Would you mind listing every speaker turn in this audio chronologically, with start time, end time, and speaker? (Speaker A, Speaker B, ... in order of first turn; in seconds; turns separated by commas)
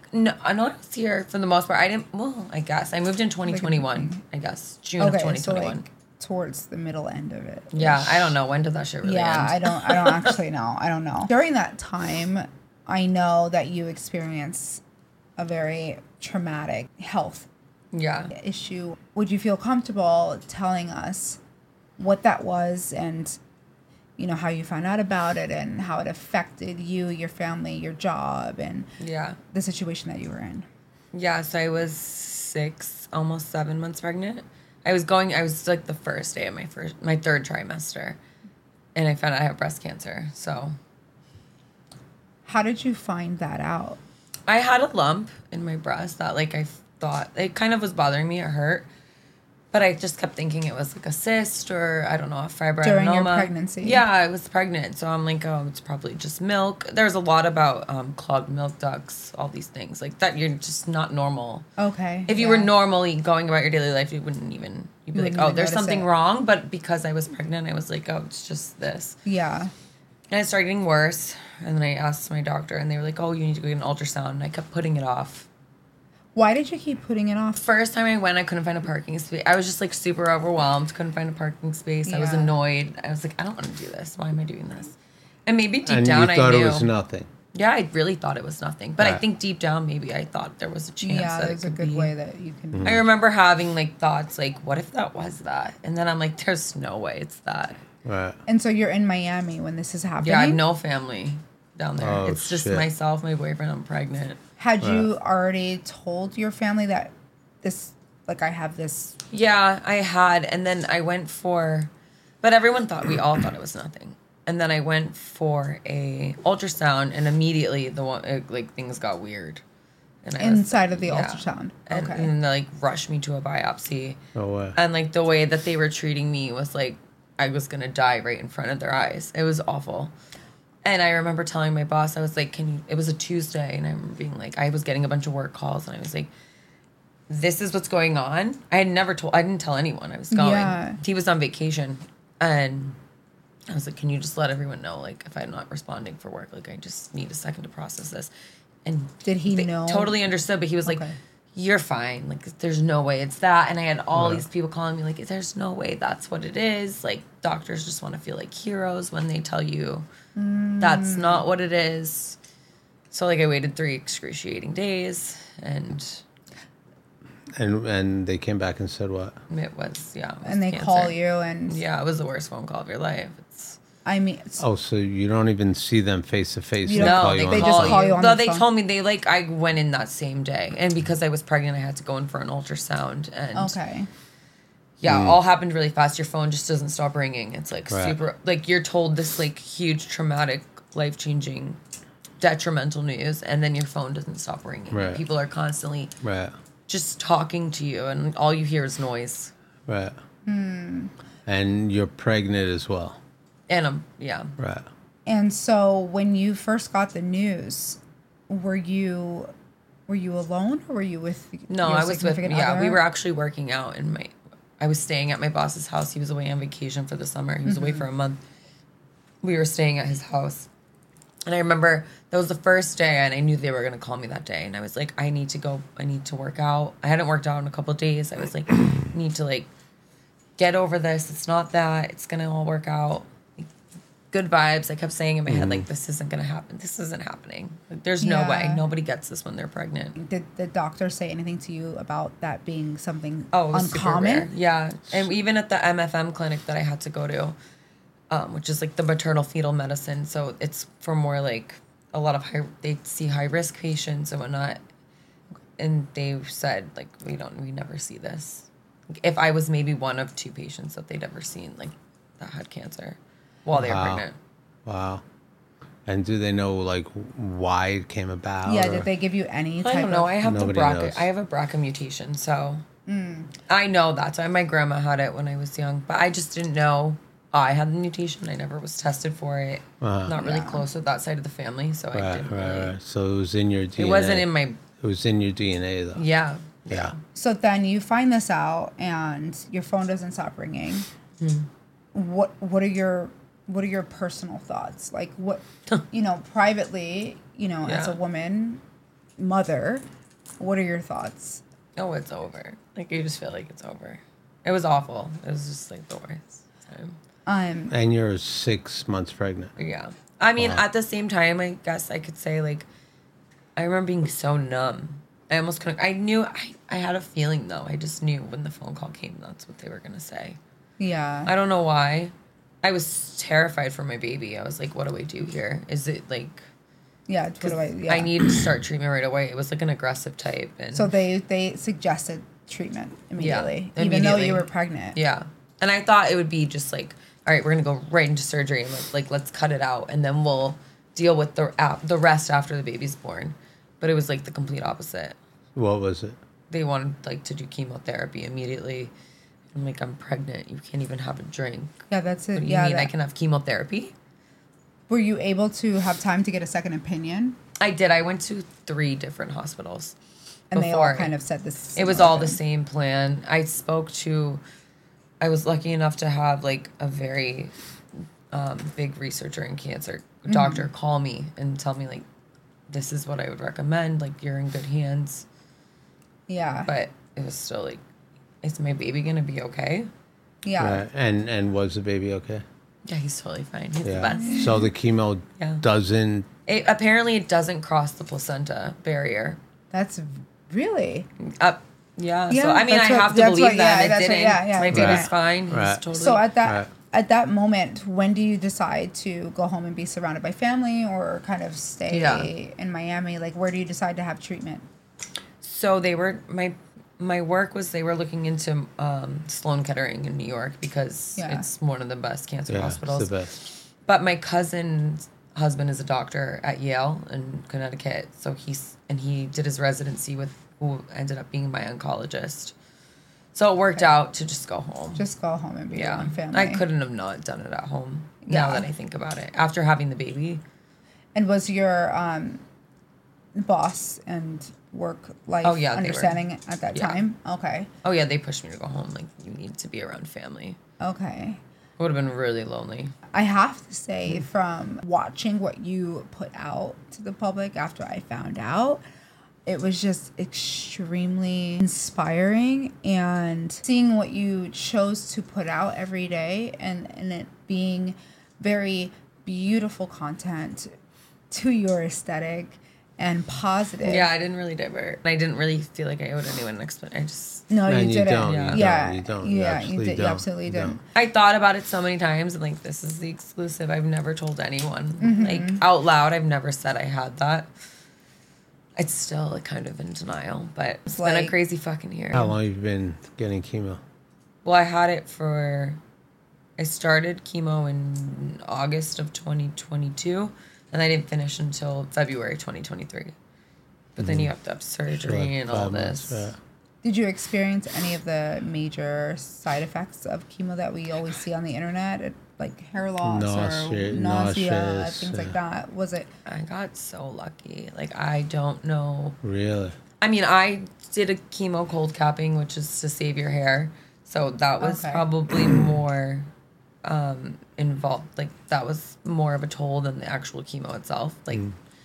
Speaker A: 0.1-5.8, Speaker B: 3.5-4.2, Speaker B: 5.0-8.3, Speaker A: 7.7-10.3, Speaker B: 9.0-14.8, Speaker B: 15.4-17.5, Speaker A: 17.9-18.3, Speaker B: 18.3-21.4, Speaker B: 22.0-23.4, Speaker B: 24.2-28.9, Speaker A: 29.0-29.4, Speaker B: 29.5-30.7, Speaker A: 31.1-38.2, Speaker A: 39.0-40.8, Speaker B: 42.5-44.0, Speaker A: 44.5-48.9, Speaker A: 49.7-61.7, Speaker B: 52.8-54.0, Speaker B: 61.8-62.7, Speaker A: 62.3-69.2, Speaker B: 65.1-66.1, Speaker B: 69.2-69.7, Speaker A: 70.3-75.5, Speaker B: 76.3-77.6, Speaker A: 77.6-85.0, Speaker B: 82.1-82.5, Speaker A: 85.5-86.9, Speaker C: 85.9-87.3, Speaker A: 87.5-92.1, Speaker B: 91.0-93.0, Speaker C: 92.7-93.0, Speaker A: 92.8-97.8, Speaker C: 98.0-98.4, Speaker B: 98.5-100.6, Speaker A: 100.2-104.4, Speaker C: 102.0-102.9, Speaker B: 104.6-109.2, Speaker C: 104.8-105.1, Speaker A: 109.3-111.9, Speaker A: 112.4-119.6, Speaker A: 120.2-124.2, Speaker B: 120.4-122.3, Speaker C: 124.3-124.8, Speaker A: 124.8-130.1, Speaker A: 130.8-136.3, Speaker A: 137.3-143.0, Speaker B: 140.3-141.0, Speaker A: 143.7-148.3, Speaker A: 148.8-160.1, Speaker B: 149.2-150.2, Speaker B: 150.9-151.1, Speaker C: 154.2-154.4, Speaker B: 160.3-161.4, Speaker A: 160.8-162.4, Speaker A: 163.1-166.2, Speaker C: 167.6-169.4, Speaker A: 169.5-173.8, Speaker B: 170.4-171.8, Speaker B: 174.1-174.6, Speaker C: 174.6-178.1, Speaker B: 176.8-178.7, Speaker A: 177.0-183.8, Speaker B: 183.6-184.1, Speaker A: 185.0-191.8, Speaker C: 185.1-185.4, Speaker C: 187.9-188.2, Speaker A: 192.4-196.1, Speaker C: 194.9-195.2, Speaker C: 196.2-196.6, Speaker A: 196.9-199.5, Speaker C: 199.9-200.2, Speaker B: 200.5-201.1, Speaker C: 201.5-203.2, Speaker A: 203.7-204.5, Speaker C: 204.6-204.9, Speaker B: 205.3-209.5, Speaker B: 210.1-213.0, Speaker A: 211.7-218.4, Speaker B: 217.7-218.0, Speaker A: 219.4-220.7, Speaker A: 221.5-229.7, Speaker A: 230.6-233.7, Speaker A: 234.3-240.2, Speaker C: 235.5-235.8, Speaker B: 238.2-238.8, Speaker B: 240.2-244.5, Speaker A: 243.5-247.6, Speaker A: 248.3-254.8, Speaker A: 255.8-264.4, Speaker C: 263.7-264.2, Speaker C: 264.9-265.2, Speaker C: 266.1-269.1, Speaker B: 268.6-270.3, Speaker A: 269.8-272.8, Speaker C: 270.4-271.3, Speaker B: 273.1-273.5, Speaker A: 273.7-282.9, Speaker C: 280.0-280.3, Speaker B: 280.4-280.9, Speaker C: 282.1-286.2, Speaker A: 284.0-284.8, Speaker A: 286.1-287.2, Speaker C: 286.9-287.1, Speaker B: 287.3-291.1, Speaker A: 291.4-291.7, Speaker B: 292.1-298.8, Speaker A: 297.8-298.2, Speaker B: 299.4-300.0, Speaker B: 300.6-301.6, Speaker A: 302.0-307.2, Speaker B: 307.5-307.9, Speaker C: 307.9-309.7, Speaker A: 309.8-312.9, Speaker A: 313.8-320.6, Speaker B: 321.0-321.5, Speaker A: 321.5-326.6, Speaker B: 327.3-328.3, Speaker A: 327.6-331.1, Speaker B: 330.9-335.2, Speaker A: 333.4-345.4, Speaker C: 345.8-346.4, Speaker A: 346.7-349.1, Speaker A: 349.7-352.0, Speaker B: 352.1-353.1, Speaker A: 352.6-354.1, Speaker B: 355.1-357.6, Speaker A: 357.8-360.1, Speaker B: 360.7-362.6, Speaker A: 360.7-361.3, Speaker A: 361.9-364.6, Speaker A: 365.4-367.7, Speaker A: 368.5-372.2, Speaker B: 370.5-370.9, Speaker A: 372.9-375.5, Speaker B: 376.5-376.9, Speaker A: 376.9-378.0, Speaker A: 378.6-380.1, Speaker B: 380.6-381.1, Speaker C: 380.8-382.6, Speaker A: 383.1-384.8, Speaker C: 384.0-386.5, Speaker B: 384.3-384.9, Speaker A: 385.6-385.8, Speaker A: 386.7-389.6, Speaker B: 389.9-391.3, Speaker A: 391.4-396.5, Speaker B: 392.5-395.3, Speaker C: 394.9-396.0, Speaker B: 396.1-404.9, Speaker C: 396.6-396.9, Speaker A: 402.1-402.5, Speaker A: 405.6-422.8, Speaker B: 411.4-411.7, Speaker C: 412.7-413.5, Speaker A: 423.5-425.2, Speaker B: 425.2-426.8, Speaker A: 425.9-430.6, Speaker B: 428.4-428.9, Speaker B: 431.4-432.6, Speaker B: 433.6-437.9, Speaker A: 435.6-436.4, Speaker A: 436.9-437.2, Speaker A: 438.0-440.8, Speaker B: 441.0-441.6, Speaker A: 442.0-443.1, Speaker B: 443.3-449.0, Speaker B: 449.7-460.9, Speaker B: 461.5-464.3, Speaker A: 464.0-467.7, Speaker B: 467.7-471.0, Speaker C: 467.9-471.0, Speaker A: 468.4-468.8, Speaker A: 471.1-477.7, Speaker B: 475.2-475.8, Speaker A: 479.0-482.6, Speaker B: 481.1-481.6, Speaker C: 482.3-484.0, Speaker A: 484.6-486.0, Speaker A: 486.8-493.3, Speaker A: 494.2-496.5, Speaker C: 494.2-494.5, Speaker C: 495.1-496.6, Speaker B: 497.0-506.3, Speaker C: 503.2-505.6, Speaker A: 506.5-509.4, Speaker C: 509.4-510.0, Speaker A: 510.2-516.5, Speaker B: 514.8-515.2, Speaker A: 517.0-521.7